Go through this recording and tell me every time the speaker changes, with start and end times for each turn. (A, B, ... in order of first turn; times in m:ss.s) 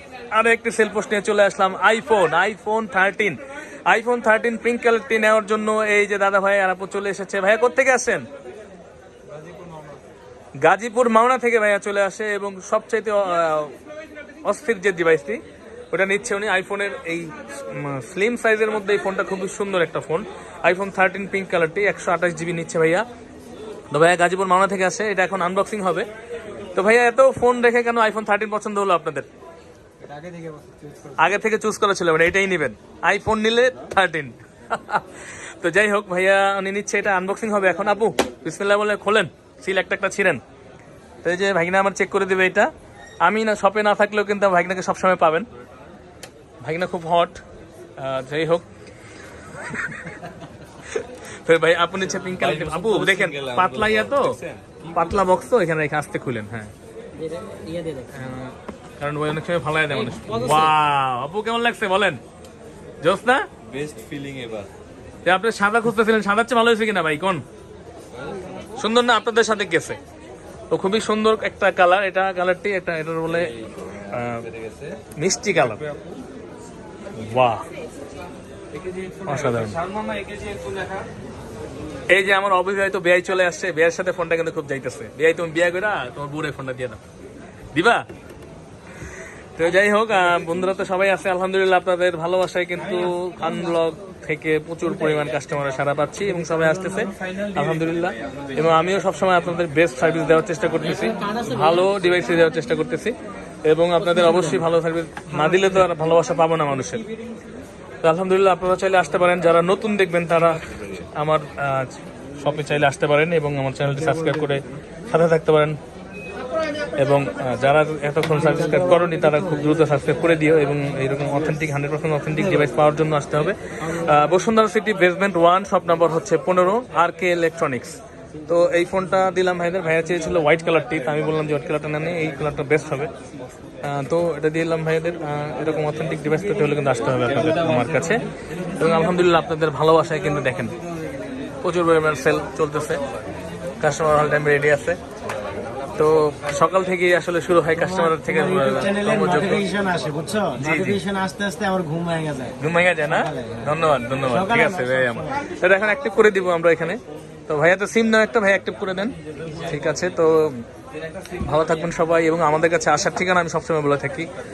0:00.3-0:03.4 A
0:03.9-0:08.2 A
0:10.6-0:13.8 A
0:14.4-0:15.4 A
0:15.9-0:23.0 A
0:23.9-0:26.1 A
0:26.7-0:29.3 A
0:30.1-0:31.1 B
0:31.1-0:40.4 A
0:41.2-0:45.5 A
0:46.6-0:47.4 A
0:48.0-0:48.6 A
0:49.5-0:50.2 A
0:50.8-0:54.4 A
0:52.2-0:55.1 C
0:54.9-0:56.7 A
0:58.0-1:02.2 A
1:03.0-1:03.5 A
1:03.6-1:04.7 C
1:05.2-1:07.4 A
1:08.7-1:10.0 A
1:10.7-1:15.9 A
1:13.8-1:15.0 C
1:17.1-1:17.6 A
1:18.7-1:21.0 C
1:19.2-1:19.8 A
1:22.1-1:27.0 A
1:27.7-1:28.0 A
1:29.5-1:43.1 A
1:43.6-1:47.0 A
1:48.0-1:55.8 A
1:57.0-2:13.1 A
2:13.8-2:20.7 A
2:21.6-2:23.0 A
2:23.8-2:25.0 A
2:26.0-2:29.8 A
2:28.0-2:32.6 B
2:30.6-2:31.0 A
2:32.6-2:40.6 A
2:33.1-2:33.7 B
2:34.2-2:35.5 B
2:41.2-2:44.3 A